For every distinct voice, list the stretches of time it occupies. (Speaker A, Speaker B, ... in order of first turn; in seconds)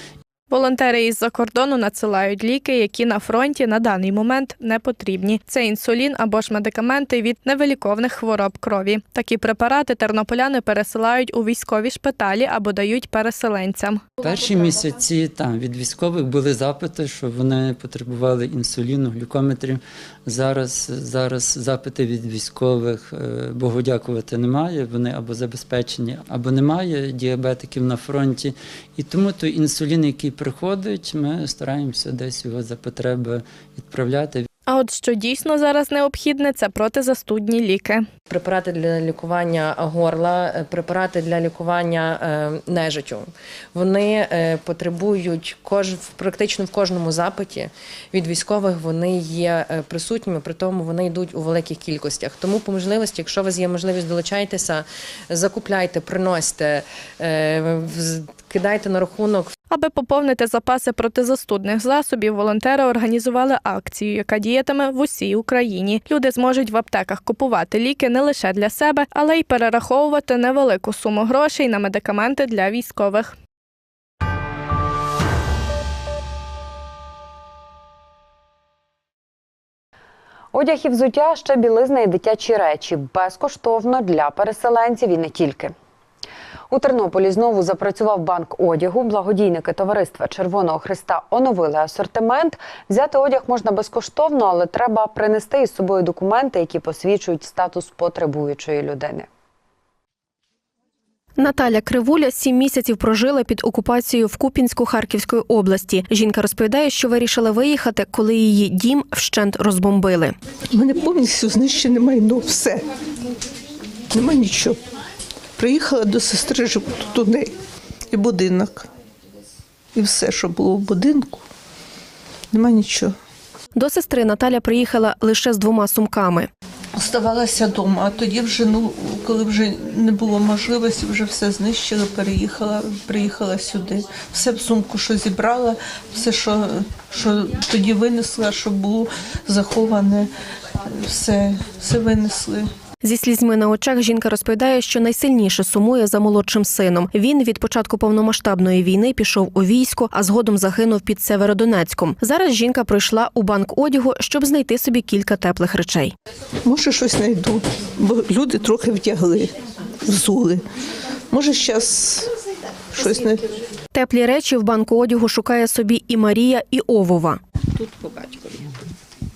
Speaker A: 0.5-14.0, 34.7-38.0, 59.7-73.3
Speaker B: 14.2-34.5
Speaker C: 38.3-59.5
Speaker D: 80.5-85.7, 86.7-99.3
Speaker E: 101.4-110.3, 123.7-126.5, 143.0-156.1, 163.9-167.4
Speaker F: 110.7-112.9, 114.1-114.8, 115.6-117.5, 118.1-118.9, 119.9-121.5, 122.5-123.1, 126.9-142.7, 156.6-160.7, 161.3-162.3, 162.9-163.6